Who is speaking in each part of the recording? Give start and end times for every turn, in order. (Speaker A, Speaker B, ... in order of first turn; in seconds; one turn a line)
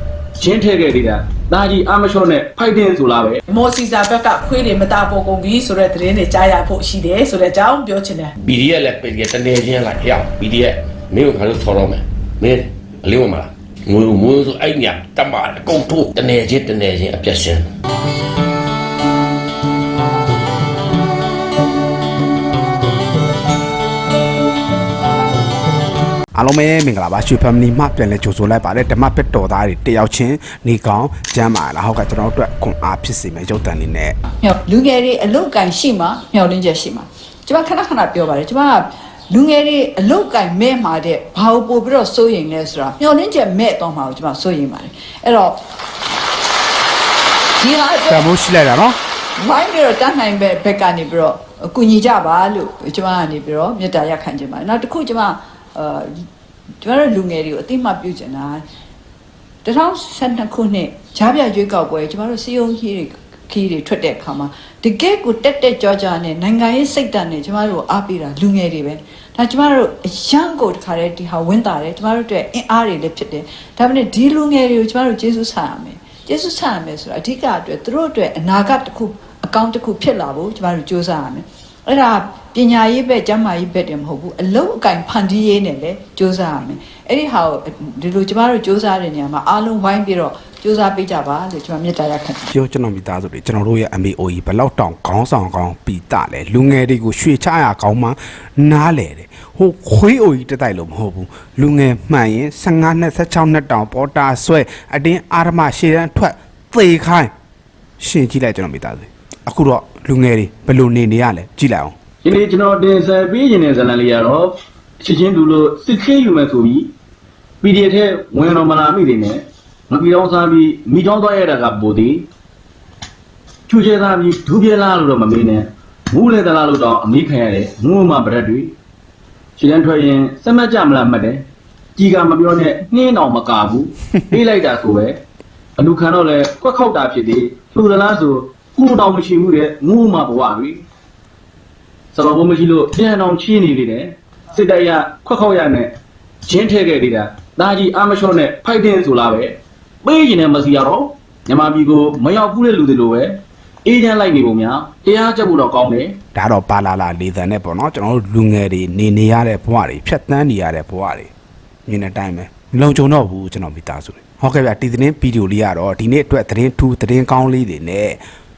Speaker A: 0.4-3.4
Speaker B: 3.5-8.3
Speaker C: 8.4-17.7
Speaker D: 26.4-34.2
Speaker E: 34.4-45.6
Speaker E: 47.6-48.3
Speaker D: 48.1-49.0
Speaker E: 49.4-56.2
Speaker E: 56.8-58.6
Speaker E: 59.6-92.5
Speaker D: 92.5-107.3
Speaker D: 108.0-112.0
Speaker A: 112.2-116.9
Speaker A: 117.6-122.3
Speaker A: 123.7-128.7
Speaker A: 129.6-131.4
Speaker A: 132.0-135.2
Speaker A: 135.8-140.8
Speaker A: 142.1-145.9
Speaker A: 146.4-156.2
Speaker D: 156.3-161.3
Speaker D: 161.9-168.2